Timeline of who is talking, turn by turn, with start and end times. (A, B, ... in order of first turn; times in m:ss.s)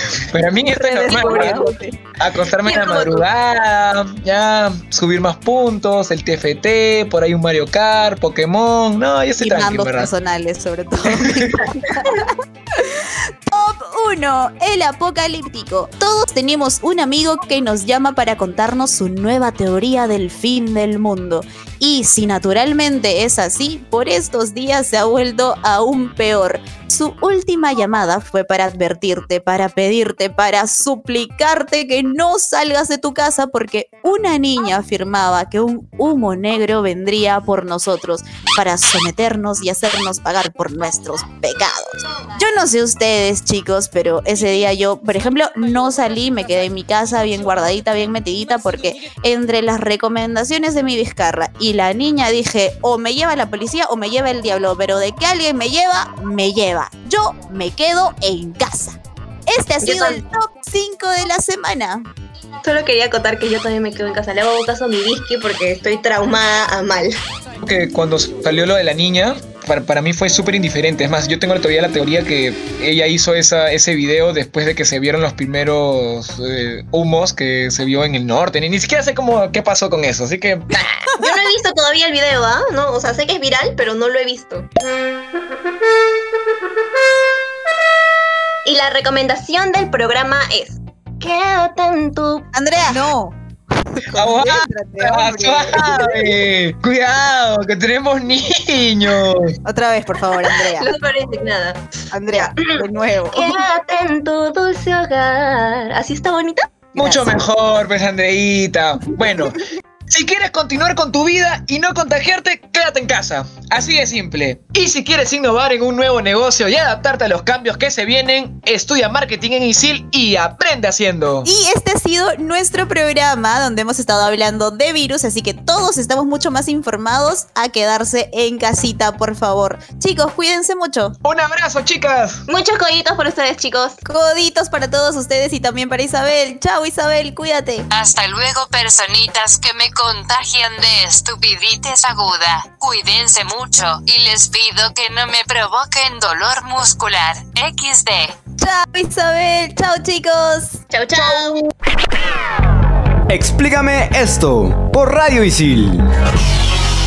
0:00.3-0:01.6 A
0:00.7-0:02.0 B
0:01.1-0:01.7 C
0:02.2-0:10.1 A
0:02.6-0:03.2 B
0:09.4-1:02.1 B
0:11.2-0:11.5 A
0:59.8-1:00.2 C
1:02.6-1:07.1 C
1:07.6-1:20.7 A
1:20.7-1:24.7 C
1:28.6-1:32.5 C
1:32.5-1:33.3 B
1:33.9-1:36.0 B
1:34.1-1:39.5 A
1:39.6-1:40.9 B
1:40.5-1:46.8 C
1:42.1-1:43.6 B
1:46.9-2:01.5 A
1:47.0-1:47.4 B
2:01.4-2:11.2 B
2:11.2-2:12.4 A
2:12.5-2:14.0 C
2:14.0-2:17.9 B
2:17.9-2:28.4 D
2:28.6-2:30.8 B
2:30.9-2:31.7 C
2:33.3-2:36.0 E